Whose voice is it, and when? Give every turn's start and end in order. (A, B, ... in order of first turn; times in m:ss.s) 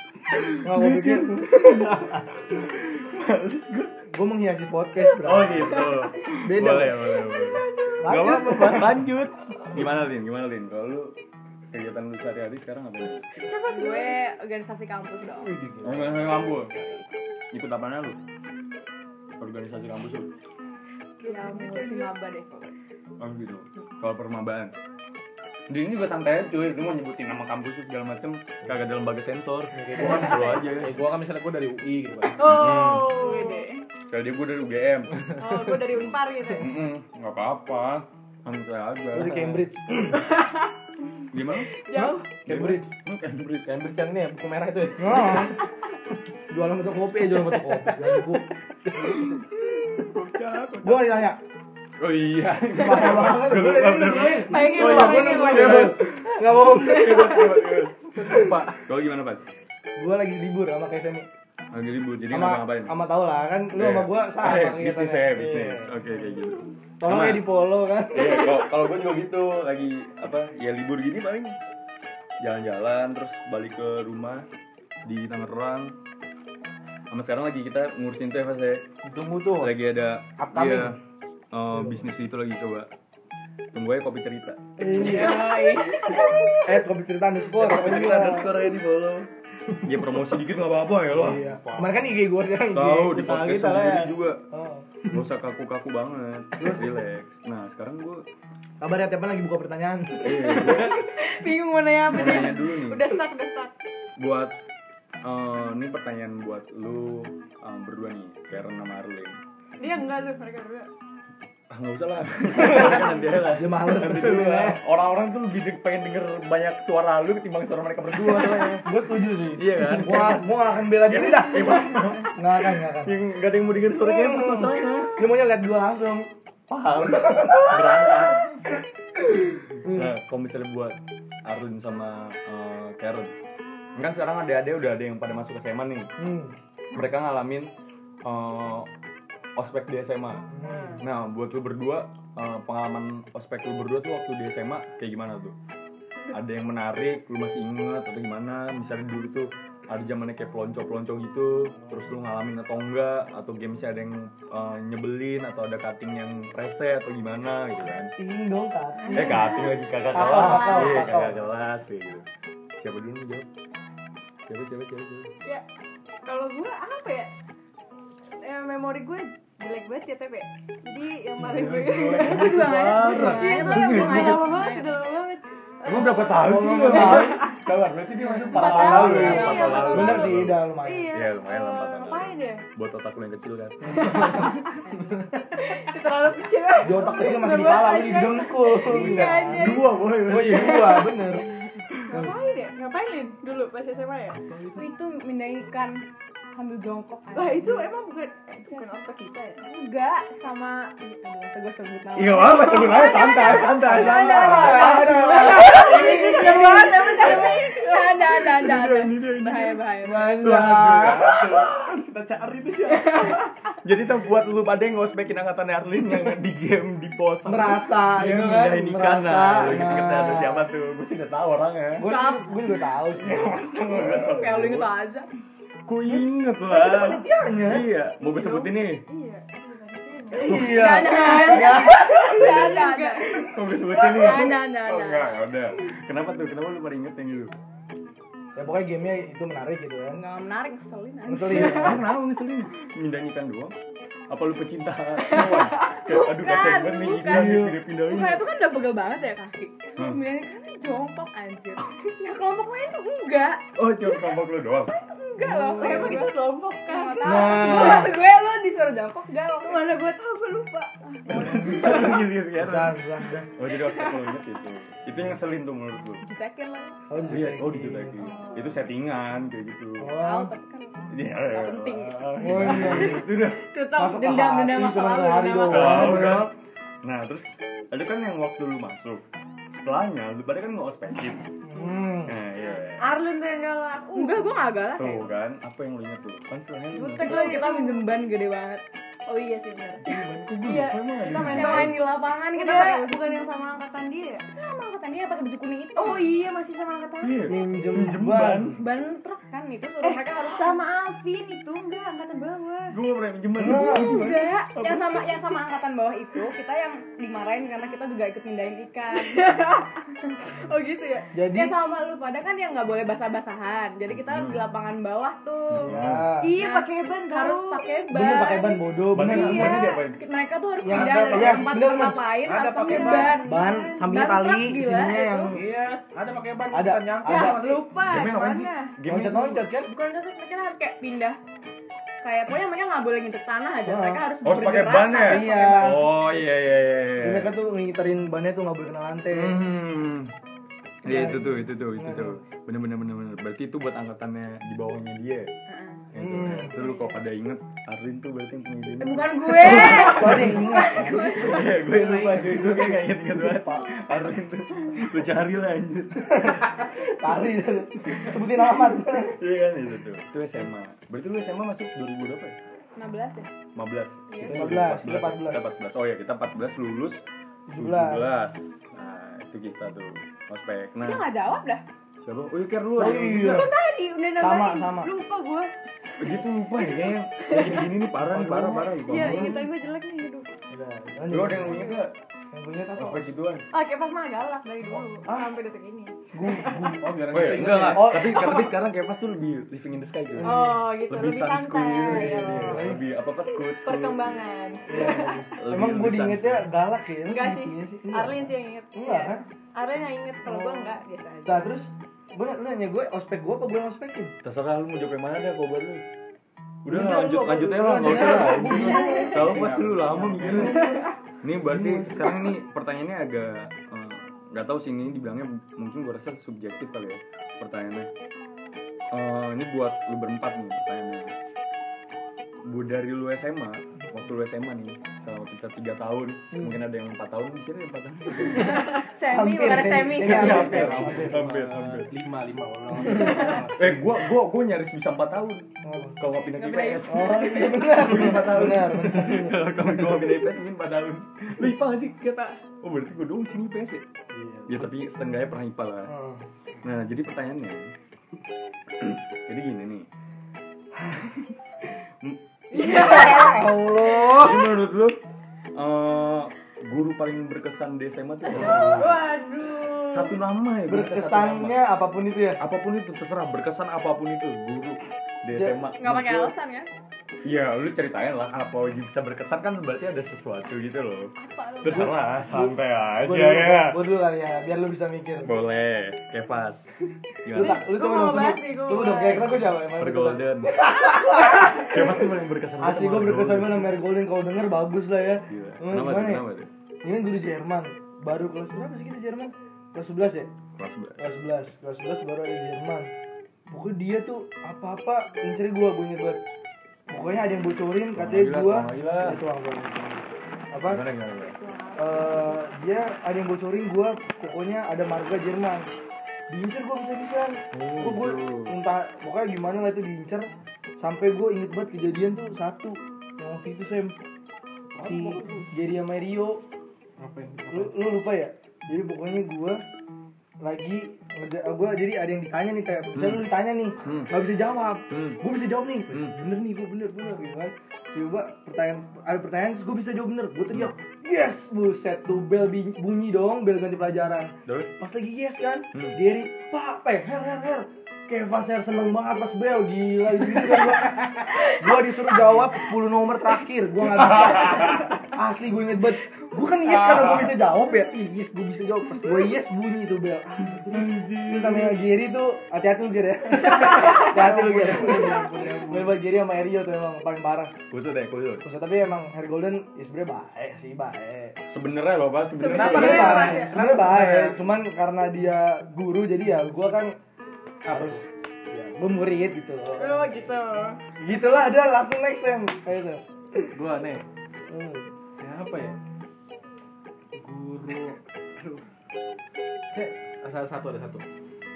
0:00.3-0:04.0 A
0:00.6-0:02.2 B
0:04.1-0:07.1 B
0:05.1-0:11.2 A
0:07.2-0:08.0 C
0:08.0-0:09.1 B
0:11.7-0:13.4 A
0:13.4-0:14.2 C
0:13.6-0:15.6 D
0:15.5-0:16.3 E
0:15.8-0:16.7 A
0:16.7-0:17.0 D
0:17.5-0:18.2 A
0:19.4-0:20.3 A
0:21.2-0:22.1 C
0:21.2-0:22.8 D
0:23.2-0:24.8 A
0:25.7-0:31.0 A
0:29.7-0:32.6 E
0:32.4-0:33.7 C
0:32.4-0:33.2 A
0:33.1-0:33.9 D
0:34.1-0:35.3 A
0:35.3-0:36.7 C
0:36.5-0:39.6 A
0:39.1-0:40.3 B
0:40.1-0:40.7 C
0:41.3-0:43.8 A
0:41.7-0:42.3 C
0:42.0-0:42.8 B
0:43.6-0:45.5 E
0:45.0-0:45.6 B
0:46.5-0:48.5 B
0:47.4-0:49.1 E
0:49.8-0:51.2 A
0:50.8-0:51.4 B
0:52.0-0:59.5 A
0:52.7-0:57.7 B
0:54.3-0:57.8 C
0:58.1-0:58.6 E
0:58.2-0:58.5 B
1:00.0-1:01.3 B
1:01.7-1:03.0 A
1:02.3-1:05.9 B
1:03.8-1:07.5 A
1:07.0-1:08.7 B
1:08.1-1:11.6 A
1:12.4-1:14.5 A
1:15.0-1:16.0 A
1:17.1-1:18.9 A
1:19.0-1:19.8 E
1:19.6-1:21.0 A
1:20.4-1:21.0 E
1:21.5-1:22.9 A
1:23.7-1:25.3 A
1:24.8-1:25.5 B
1:25.0-1:26.3 D
1:25.0-1:26.5 C
1:26.6-1:28.6 B
1:27.5-1:29.3 A
1:29.8-1:31.4 A
1:31.1-1:35.0 B
1:31.2-1:31.9 E
1:32.7-1:34.4 A
1:35.0-1:38.2 A
1:36.6-1:36.9 B
1:38.8-1:40.7 B
1:40.2-1:41.1 A
1:40.2-1:43.7 C
1:42.1-1:43.0 A
1:44.2-1:44.5 A
1:45.2-1:49.4 A
1:49.8-1:50.9 C
1:51.7-1:58.9 A
1:52.5-1:54.8 B
1:58.2-2:03.2 B
1:59.6-2:05.3 A
2:03.9-2:06.3 B
2:06.7-2:08.6 A
2:07.0-2:08.4 B
2:09.8-2:10.1 B
2:09.8-2:13.3 A
2:14.0-2:16.1 A
2:16.2-2:16.6 B
2:16.9-2:17.7 A
2:18.2-2:18.9 A
2:19.6-2:20.5 A
2:20.5-2:21.0 B
2:20.6-2:21.0 C
2:21.0-2:25.6 A
2:26.3-2:38.1 A
2:38.2-2:39.6 B
2:39.2-2:42.3 A
2:40.1-2:41.5 B
2:40.1-2:41.3 D
2:42.8-2:43.5 A
2:44.4-2:45.3 A
2:46.2-2:47.3 C
2:48.4-2:57.5 C
2:51.4-2:54.4 A
2:51.5-2:51.9 B
2:52.1-2:54.9 D
2:55.8-3:04.4 A
2:56.4-2:57.4 B
2:58.3-3:00.2 D
2:58.3-3:01.1 B
2:58.5-3:02.6 C
3:03.8-3:04.6 B
3:03.9-3:04.8 C
3:04.8-3:05.2 D
3:05.5-3:11.4 C
3:06.8-3:11.5 B
3:08.9-3:11.0 A
3:11.8-3:12.2 A
3:12.0-3:14.4 C
3:14.8-3:17.9 D
3:17.3-3:19.6 C
3:18.6-3:19.1 D
3:19.6-3:30.4 D
3:22.2-3:25.3 A
3:22.5-3:28.2 C
3:23.8-3:27.3 B
3:28.4-3:42.1 A
3:30.0-3:31.7 B
3:33.1-3:33.4 C
3:37.5-3:40.7 B
3:42.0-3:43.6 B
3:42.0-3:42.6 D
3:43.1-3:44.9 A
3:44.0-3:45.3 D
3:45.9-3:49.0 A
3:46.1-3:47.9 B
3:48.2-3:53.4 C
3:50.3-3:52.5 B
3:50.4-3:53.4 D
3:53.3-3:57.6 A
3:54.0-3:55.5 D
3:58.6-4:00.2 B
4:00.1-4:02.0 D
4:01.3-4:02.1 B
4:01.5-4:03.8 A
4:04.3-4:08.4 A
4:05.3-4:05.7 C
4:06.0-4:14.3 D
4:07.2-4:07.8 B
4:13.8-4:14.9 A
4:14.9-4:16.4 D
4:15.4-4:16.2 B
4:15.7-4:18.0 C
4:16.9-4:19.8 D
4:17.2-4:18.1 B
4:19.6-4:21.0 C
4:21.0-4:21.8 D
4:21.3-4:23.0 A
4:21.4-4:23.5 B
4:23.6-4:26.2 A
4:23.7-4:24.4 C
4:26.2-4:27.6 D
4:27.1-4:28.3 B
4:27.3-4:30.2 A
4:30.0-4:30.5 B
4:30.1-4:36.2 D
4:31.1-4:33.6 A
4:32.4-4:33.3 B
4:33.9-4:36.5 B
4:35.7-4:41.5 A
4:41.6-4:42.4 B
4:42.2-4:43.1 A
4:43.0-4:44.4 C
4:44.2-4:45.4 D
4:45.0-4:47.6 A
4:46.9-4:48.1 C
4:47.2-4:48.8 D
4:49.3-4:54.4 C
4:50.0-4:52.0 A
4:51.4-4:53.4 D
4:54.5-4:56.3 D
4:56.0-4:57.5 C
4:57.2-4:58.8 A
4:57.5-4:58.8 B
4:58.8-5:00.8 D
5:00.0-5:03.0 C
5:02.9-5:05.2 A
5:03.6-5:04.5 B
5:03.6-5:09.4 D
5:09.1-5:11.3 C
5:11.3-5:11.8 B
5:11.5-5:15.9 D
5:14.2-5:14.6 A
5:15.7-5:16.3 A
5:15.8-5:16.6 B
5:16.4-5:17.8 C
5:16.6-5:25.6 D
5:18.1-5:19.9 B
5:19.1-5:20.2 A
5:20.8-5:22.2 B
5:20.9-5:21.6 E
5:22.4-5:23.4 E
5:22.8-5:24.0 C
5:23.3-5:25.6 B
5:25.5-5:27.9 E
5:26.7-5:27.8 B
5:27.2-5:29.0 C
5:28.0-5:29.6 A
5:29.0-5:29.9 B
5:29.8-5:31.4 D
5:32.2-5:36.0 D
5:33.8-5:34.2 B
5:34.4-5:37.5 A
5:35.1-5:36.1 B
5:37.2-5:39.6 B
5:39.3-5:40.3 A
5:41.0-5:45.5 A
5:41.0-5:42.4 B
5:45.7-5:46.1 D
5:46.1-5:56.8 A
5:46.2-5:46.8 B
5:49.0-5:51.3 D
5:49.6-5:53.7 B
5:49.7-5:51.7 C
5:56.2-5:59.4 B
5:59.2-6:02.6 A
6:03.0-6:03.5 D
6:03.8-6:11.2 A
6:04.3-6:04.8 C
6:04.4-6:05.6 B
6:07.7-6:08.4 B
6:11.0-6:11.8 D
6:12.2-6:13.7 A
6:13.0-6:13.7 B
6:13.4-6:15.7 C
6:14.4-6:15.1 B
6:16.2-6:19.7 A
6:16.2-6:17.9 C
6:18.2-6:19.7 B
6:19.0-6:20.5 C
6:20.7-6:22.0 B
6:21.3-6:22.2 A
6:22.5-6:23.3 B
6:23.0-6:23.6 A
6:23.7-6:27.0 C
6:25.3-6:25.5 B
6:26.3-6:27.2 B
6:26.8-6:28.2 E
6:27.3-6:34.4 A
6:27.9-6:28.8 B
6:30.3-6:30.8 B
6:30.4-6:35.5 C
6:32.1-6:33.0 B
6:34.9-6:39.5 B
6:35.6-6:36.7 A
6:37.2-6:41.7 C
6:40.4-6:41.0 B
6:41.5-6:44.3 B
6:44.4-6:46.0 A
6:46.8-6:58.1 A
6:46.9-6:51.1 B
6:48.7-6:49.4 C
6:51.6-6:52.5 B
6:59.1-7:01.3 A
7:02.6-7:08.9 A
7:06.5-7:06.8 B
7:08.6-7:11.4 B
7:08.7-7:11.1 D
7:10.1-7:12.1 A
7:10.4-7:14.0 E
7:13.1-7:13.4 B
7:13.7-7:15.7 A
7:15.8-7:16.2 B
7:16.2-7:24.0 A
7:16.6-7:17.1 C
7:17.0-7:20.4 B
7:24.3-7:24.9 B
7:24.7-7:26.1 A
7:26.1-7:26.4 B
7:26.8-7:27.9 A
7:29.0-7:30.1 A
7:31.3-7:33.4 A
7:32.7-7:34.0 C
7:32.7-7:34.7 B
7:34.2-7:35.2 A
7:35.7-7:39.3 A
7:38.5-7:40.4 C
7:40.0-7:41.8 A
7:40.9-7:42.6 B
7:42.6-7:46.5 A
7:45.5-7:45.9 B
7:46.0-7:46.9 D
7:47.4-7:54.0 A
7:51.4-7:52.2 D
7:51.9-7:55.5 B
7:55.4-7:56.9 A
7:57.4-7:57.9 A
7:57.5-8:06.4 B
7:57.6-7:59.7 C
8:00.0-8:03.9 A
8:05.5-8:06.7 A
8:07.0-8:10.5 B
8:10.8-8:11.4 A
8:11.2-8:13.1 B
8:13.7-8:16.4 B
8:17.1-8:21.0 B
8:18.2-8:19.4 A
8:20.8-8:21.6 A
8:21.6-8:22.6 D
8:22.0-8:25.9 B
8:26.5-8:34.2 B
8:27.7-8:28.8 A
8:34.9-8:35.7 E
8:35.0-8:36.6 B
8:37.2-8:38.0 E
8:37.7-8:39.8 B
8:40.6-9:17.7 B
8:43.2-8:43.5 A
8:44.0-8:44.3 A
8:45.1-8:45.4 A
8:46.1-8:46.4 A
8:54.7-8:54.9 A
9:10.9-9:12.0 A
9:13.8-9:16.1 E
9:13.9-9:14.2 C
9:14.7-9:15.0 A
9:17.9-9:18.6 A
9:18.6-9:21.6 B
9:21.7-9:23.5 A
9:22.6-9:23.8 C
9:22.6-9:24.6 E
9:22.8-9:27.2 B
9:27.9-9:28.3 E
9:27.9-9:30.3 B
9:30.0-9:31.0 C
9:31.2-9:33.8 B
9:33.7-9:34.2 E
9:34.7-9:35.1 B
9:35.4-9:36.0 E
9:37.3-9:38.8 E
9:39.9-9:41.2 E